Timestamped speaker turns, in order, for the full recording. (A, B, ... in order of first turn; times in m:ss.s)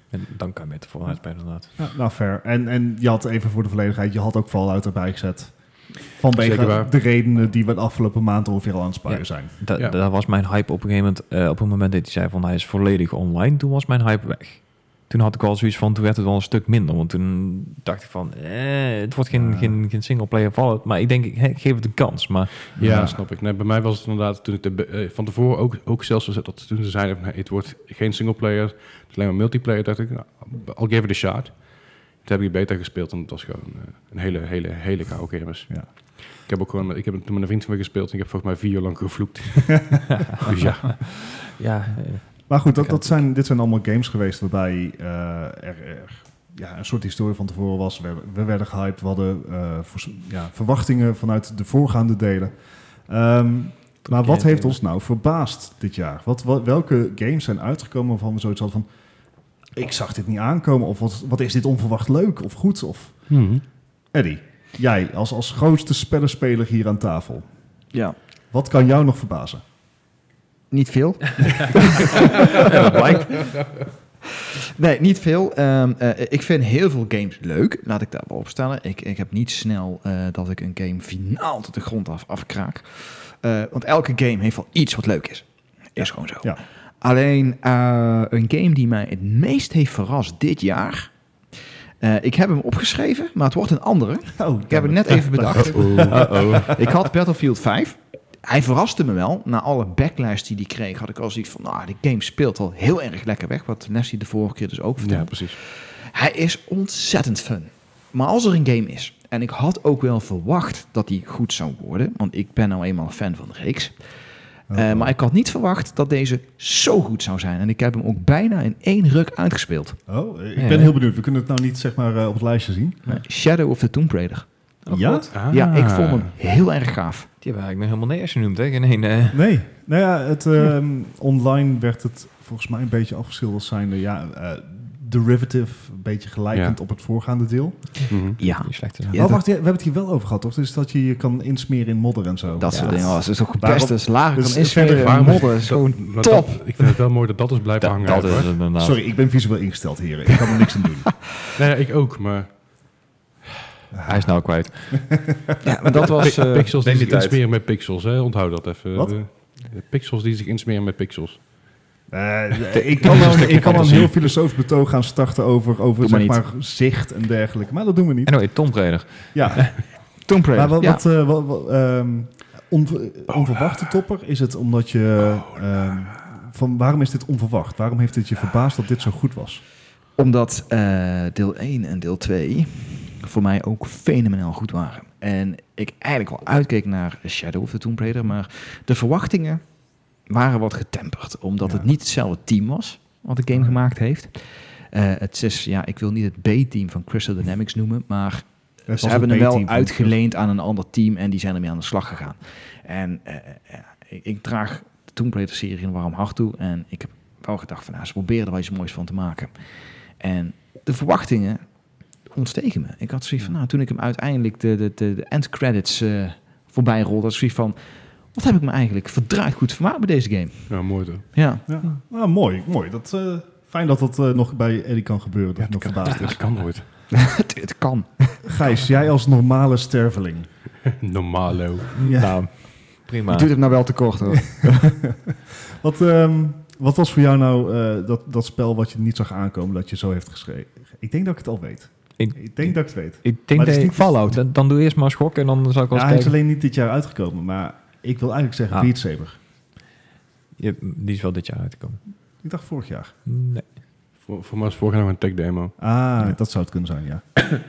0:00.1-0:01.8 A
0:01.1-0:09.5 B
0:06.4-0:06.9 C
0:09.1-0:22.7 A
0:19.3-0:19.8 B
0:22.7-0:41.2 C
0:22.8-0:23.2 B
0:41.5-0:43.2 A
0:42.4-0:58.9 B
0:54.0-0:54.8 A
0:59.7-1:03.4 B
1:03.3-1:03.6 C
1:04.1-1:07.5 B
1:08.5-1:09.6 B
1:10.7-1:13.5 D
1:12.6-1:13.3 A
1:14.8-1:31.2 D
1:26.0-1:26.6 B
1:32.0-1:54.1 D
1:34.4-1:36.7 B
1:35.5-1:36.7 C
1:36.1-1:36.7 A
1:45.0-1:45.6 C
1:54.7-1:55.1 B
1:54.7-2:00.0 D
2:00.1-2:03.2 B
2:00.5-2:00.9 A
2:03.0-2:04.5 D
2:04.8-2:05.4 A
2:04.9-2:05.3 B
2:05.3-2:06.3 C
2:05.5-2:07.3 D
2:07.4-2:09.4 A
2:09.3-2:18.2 B
2:16.5-2:16.8 C
2:18.1-2:18.4 C
2:18.4-2:19.4 D
2:18.4-2:19.4 A
2:19.1-2:25.5 B
2:22.6-2:26.9 D
2:22.7-2:23.2 A
2:24.8-2:28.5 C
2:27.8-2:29.0 A
2:28.8-2:31.2 B
2:31.5-2:32.8 C
2:33.9-2:35.5 B
2:34.0-2:35.1 A
2:35.6-2:36.5 D
2:36.0-2:37.4 A
2:36.2-2:41.4 C
2:42.1-2:48.6 B
2:43.0-2:44.2 A
2:46.0-2:46.4 D
2:48.2-2:49.7 A
2:49.3-2:59.6 B
2:50.2-2:51.0 D
3:00.2-3:41.6 D
3:11.6-3:11.9 B
3:13.5-3:13.8 B
3:18.9-3:20.2 B
3:40.7-3:41.3 C
3:41.7-3:46.5 B
3:45.6-3:46.9 C
3:47.1-3:48.5 D
3:48.4-3:50.5 B
3:50.9-3:51.9 C
3:52.0-3:53.5 A
3:52.0-3:52.5 B
3:53.3-3:55.0 D
3:54.5-4:04.4 B
4:02.2-4:06.3 A
4:05.9-4:09.4 B
4:10.6-4:12.0 A
4:12.4-4:13.1 B
4:13.2-4:13.7 A
4:14.2-4:15.8 C
4:15.8-4:17.2 B